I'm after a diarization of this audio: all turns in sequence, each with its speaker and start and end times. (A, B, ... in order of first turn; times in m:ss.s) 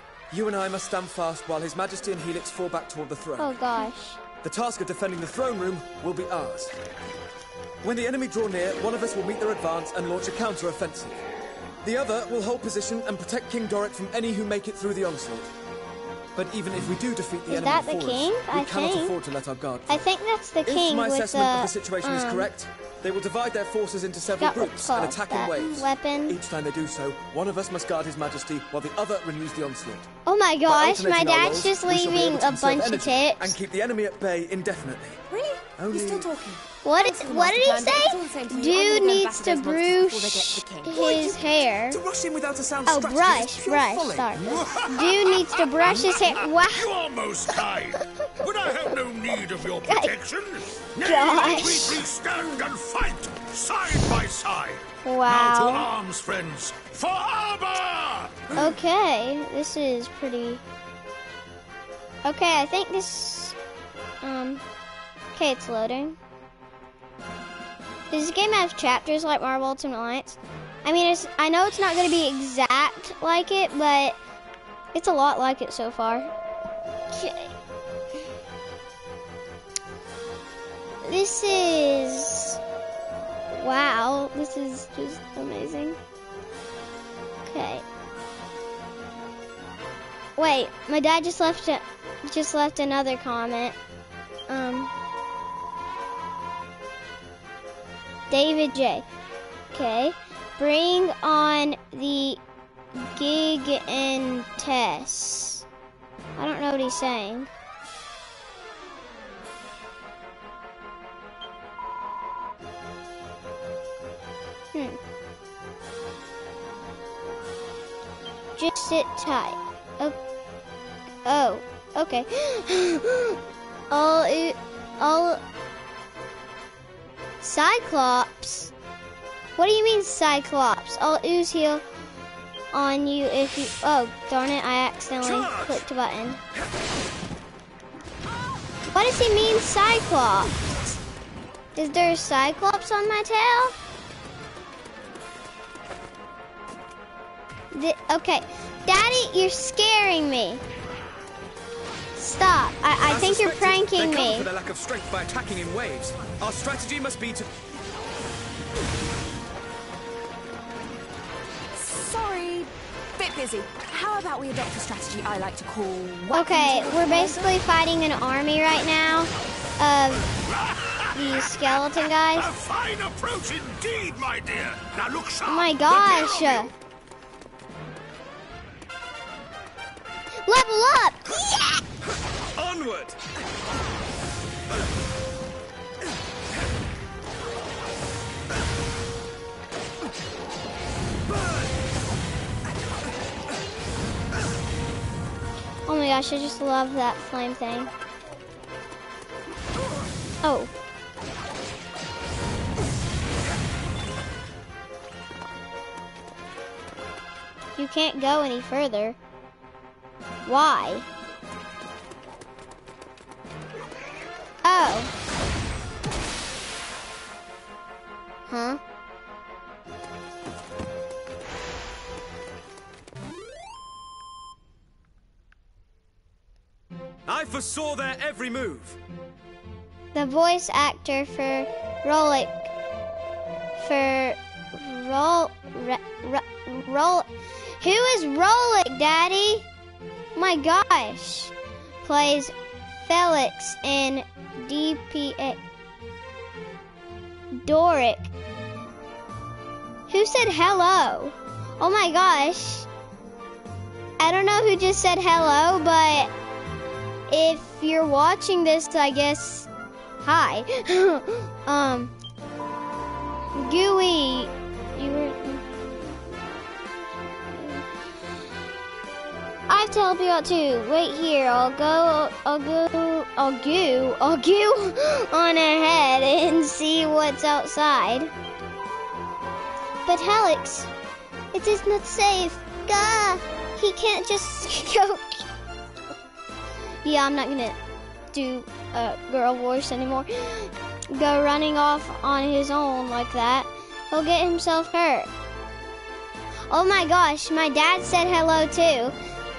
0:00.3-0:03.6 A
0:03.4-0:04.2 B
0:04.4-0:06.7 A
0:07.8-0:11.2 A
0:11.8-0:15.5 A
0:16.4-0:20.0 A
0:17.5-0:19.2 B
0:19.9-0:22.5 B
0:20.6-0:30.1 A
0:24.4-0:26.4 B
0:30.3-0:33.6 B
0:30.7-0:35.2 A
0:35.3-0:41.3 C
0:35.8-0:36.3 A
0:36.8-0:42.0 B
0:41.0-0:41.4 A
0:41.9-0:44.8 A
0:42.9-0:46.9 B
0:44.5-0:58.8 D
0:48.2-0:48.4 B
0:49.8-0:50.2 B
0:51.0-0:52.1 B
0:55.0-0:55.9 B
0:58.6-1:00.6 B
1:02.2-1:03.6 B
1:04.2-1:04.6 B
1:05.4-1:06.2 B
1:08.1-1:14.2 B
1:14.9-1:16.3 B
1:17.1-1:17.5 B
1:21.0-1:22.6 B
1:23.5-1:26.0 B
1:27.4-1:27.8 B
1:30.4-1:33.8 B
1:34.5-1:34.9 B
1:38.3-1:39.1 B
1:39.7-1:42.4 B
1:43.0-1:45.6 B
1:46.4-1:47.5 B
1:54.7-1:55.0 B
1:58.6-2:00.2 B
2:01.2-2:03.4 B
2:03.9-2:05.4 B
2:07.4-2:08.7 B
2:09.6-2:11.8 B
2:12.7-2:16.4 B
2:15.2-2:15.8 A
2:18.9-2:20.5 B
2:21.8-2:23.8 B
2:27.7-2:30.6 B
2:32.2-2:34.5 B
2:33.0-2:37.5 A
2:41.7-2:47.6 C
2:46.3-2:50.2 B
2:50.5-2:51.8 D
2:51.1-2:52.5 B
2:52.4-2:56.7 D
2:55.4-2:56.7 B
3:00.5-3:01.7 B
3:02.6-3:03.2 A
3:11.3-3:11.7 A
3:15.9-3:17.9 B
3:20.4-3:20.7 B
3:27.8-3:29.2 B
3:30.5-3:31.1 B
3:34.6-3:35.1 B
3:38.5-3:38.8 B
3:47.3-3:49.0 A
3:50.1-3:52.7 B
3:53.8-3:57.3 B
3:57.8-3:59.7 B
4:00.4-4:05.6 B
4:07.6-4:08.3 B
4:10.1-4:12.9 B
4:14.2-4:16.3 B
4:17.3-4:19.7 B
4:20.2-4:22.1 B
4:23.6-4:25.6 B
4:27.6-4:27.8 B
4:29.7-4:38.3 B
4:40.1-4:40.9 B
4:41.5-4:45.5 B
4:47.0-4:47.8 B
4:48.3-4:55.3 B
4:56.7-4:59.2 B